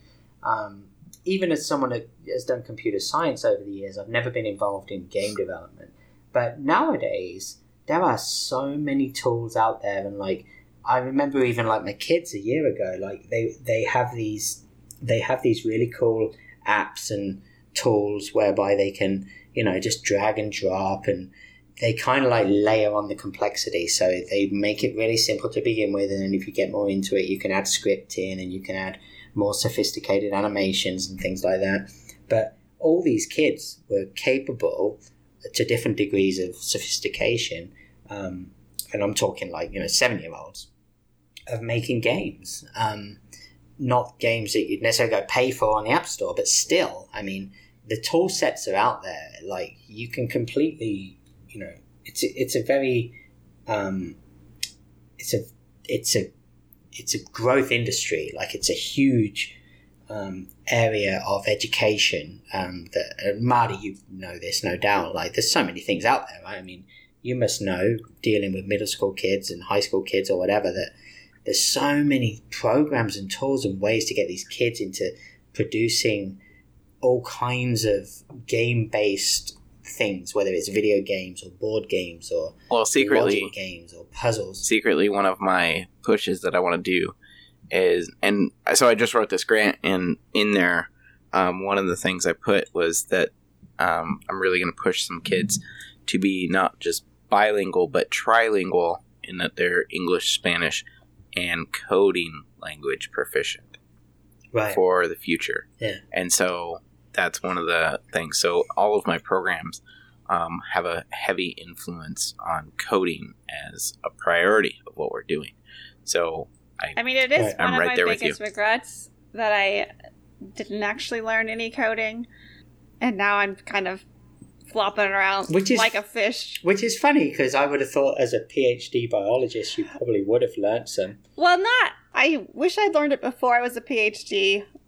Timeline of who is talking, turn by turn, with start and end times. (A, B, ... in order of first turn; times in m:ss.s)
0:00.4-0:40.7 A
0:41.5-0:43.2 A
0:43.8-0:53.2 A
0:53.7-0:54.2 A
0:55.2-0:56.3 A
0:56.9-0:59.6 A
1:00.1-1:10.9 A
1:11.4-1:16.4 A
1:17.0-1:24.7 A
1:22.7-1:23.5 B
1:24.6-1:27.1 B
1:27.7-1:43.8 B
1:44.5-1:44.8 A
1:44.7-1:57.0 B
1:57.0-1:59.9 C
1:57.6-1:58.4 B
2:00.5-2:02.3 C
2:03.0-2:04.0 C
2:04.7-2:06.6 C
2:05.5-2:06.0 A
2:06.6-2:11.2 A
2:11.4-2:14.6 C